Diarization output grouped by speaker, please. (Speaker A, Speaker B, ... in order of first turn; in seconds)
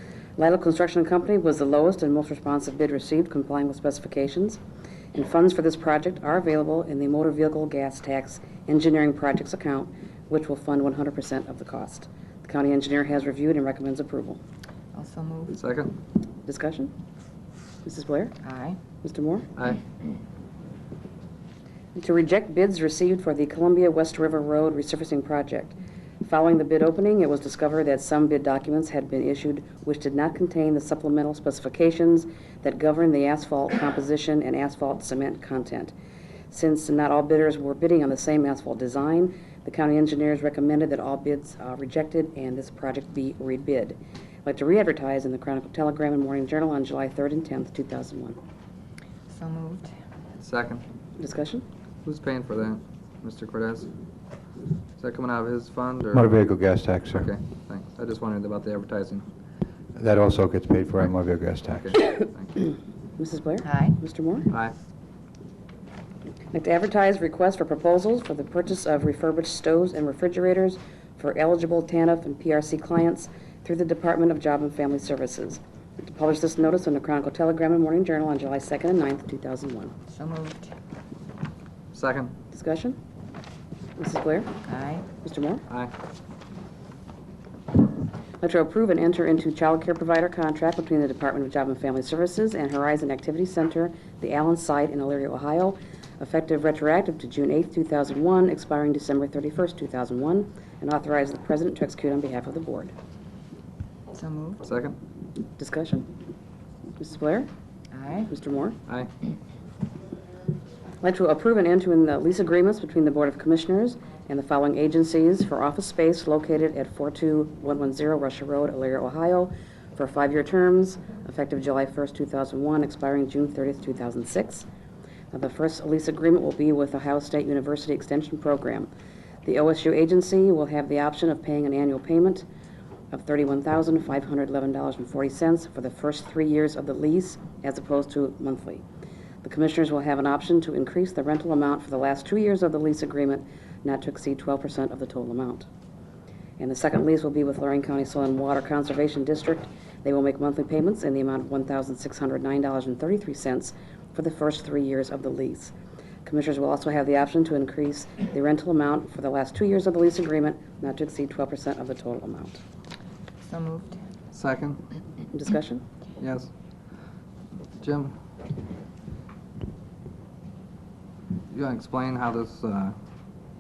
Speaker A: 0.4-4.6, 5.1-14.4, 16.5-16.9, 17.8-18.4, 19.0-19.5, 21.9-35.9, 36.5-48.4, 51.2-51.7, 63.2-64.5, 66.5-79.9, 82.5-83.0, 84.0-84.5, 85.2-85.6, 88.4-102.9, 105.6-106.1, 107.0-107.5, 108.3-108.8, 111.0-124.7, 125.3-128.9, 129.4-132.5, 133.1-138.8, 139.4-145.7, 146.6-155.7, 156.2-162.6, 165.3-165.8
Speaker B: 14.9-15.6, 18.4-18.8, 49.3-49.9, 63.6-64.0, 80.1-80.7, 84.7-85.1, 104.1-104.6, 107.9-108.3, 163.4-164.0
Speaker C: 15.5-16.0, 19.6-19.8, 50.4-50.9, 52.0-53.9, 55.0-56.3, 57.1-59.3, 61.7-62.7, 64.5-64.8, 81.9-82.3, 104.6-105.0, 164.3-164.8, 166.2-166.5, 167.8-168.2, 171.5-173.0
Speaker D: 56.1-57.3, 60.0-62.0